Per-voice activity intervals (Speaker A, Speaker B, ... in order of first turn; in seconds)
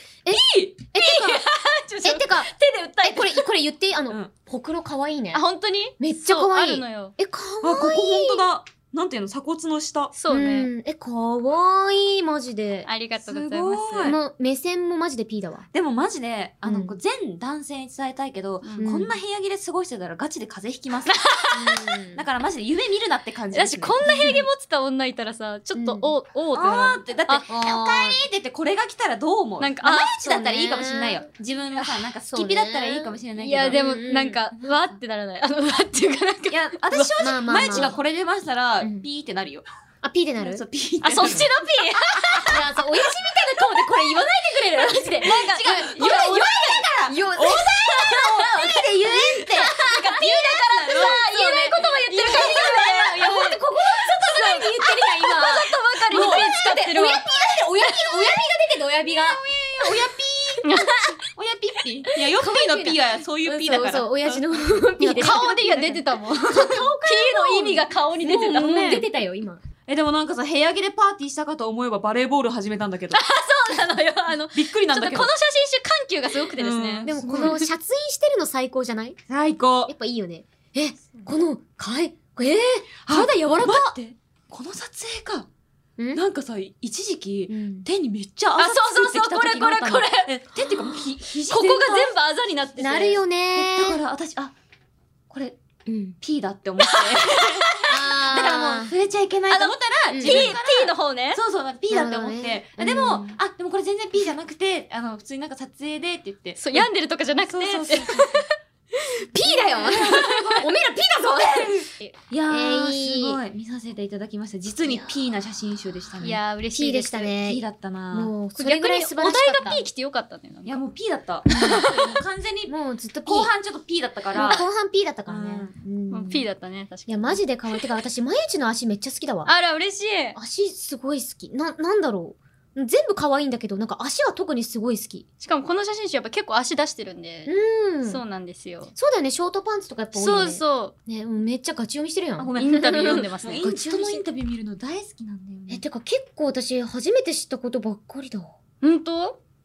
Speaker A: 0.2-1.5, 2.0-5.4, 6.0-8.4, 10.3-12.9, 14.0-15.6, 16.6-16.9, 18.8-19.1, 21.5-22.2, 24.0-24.4, 25.7-26.1, 27.5-28.2, 30.2-31.2, 32.3-34.4, 37.2-38.0, 38.8-39.0, 40.0-40.6, 42.4-60.9, 62.4-69.6, 77.0-79.2, 79.9-83.9, 87.5-87.9, 92.8-94.0, 95.8-96.2, 97.9-98.9, 100.1-100.6, 101.9-103.3, 108.9-111.8, 112.5-113.4, 116.7-119.8, 121.5-121.8, 122.7-123.5, 124.3-126.4, 127.1-129.5, 130.3-135.2, 137.5-138.2, 138.9-144.2, 145.7-148.5
Speaker B: 0.3-0.9, 7.6-10.1, 13.2-14.2, 15.7-21.2, 22.1-24.0, 26.5-33.8, 36.5-39.6, 40.4-41.5, 42.1-42.4, 43.6-49.7, 50.6-53.3, 56.1-56.5, 59.1-60.6, 61.3-64.6, 65.6-66.0, 68.6-69.0, 69.9-73.2, 74.5-75.3, 76.6-77.7, 79.3-79.9, 83.0-85.5, 86.1-92.1, 93.5-94.5, 95.3-95.6, 96.2-106.8, 107.5-108.5, 109.7-116.4, 117.4-118.3, 120.6-124.6, 125.3-125.7, 142.4-145.8
Speaker C: 1.0-3.5, 5.3-7.1, 10.1-10.7, 12.8-14.1, 21.1-21.9, 23.5-27.4, 29.6-30.1, 33.4-37.9, 41.0-42.6, 45.2-46.3, 49.4-57.2, 57.8-58.1, 60.6-61.2, 65.0-69.0, 73.1-77.6, 88.5-93.2, 96.8-97.9, 99.5-101.4, 106.6-108.4, 109.9-110.4, 116.2-117.3, 118.5-120.8, 121.6-122.0, 124.4-124.6, 126.1-127.8, 129.4-130.4, 135.4-137.5, 138.0-138.9, 140.1-140.9, 142.6-143.6, 148.8-149.4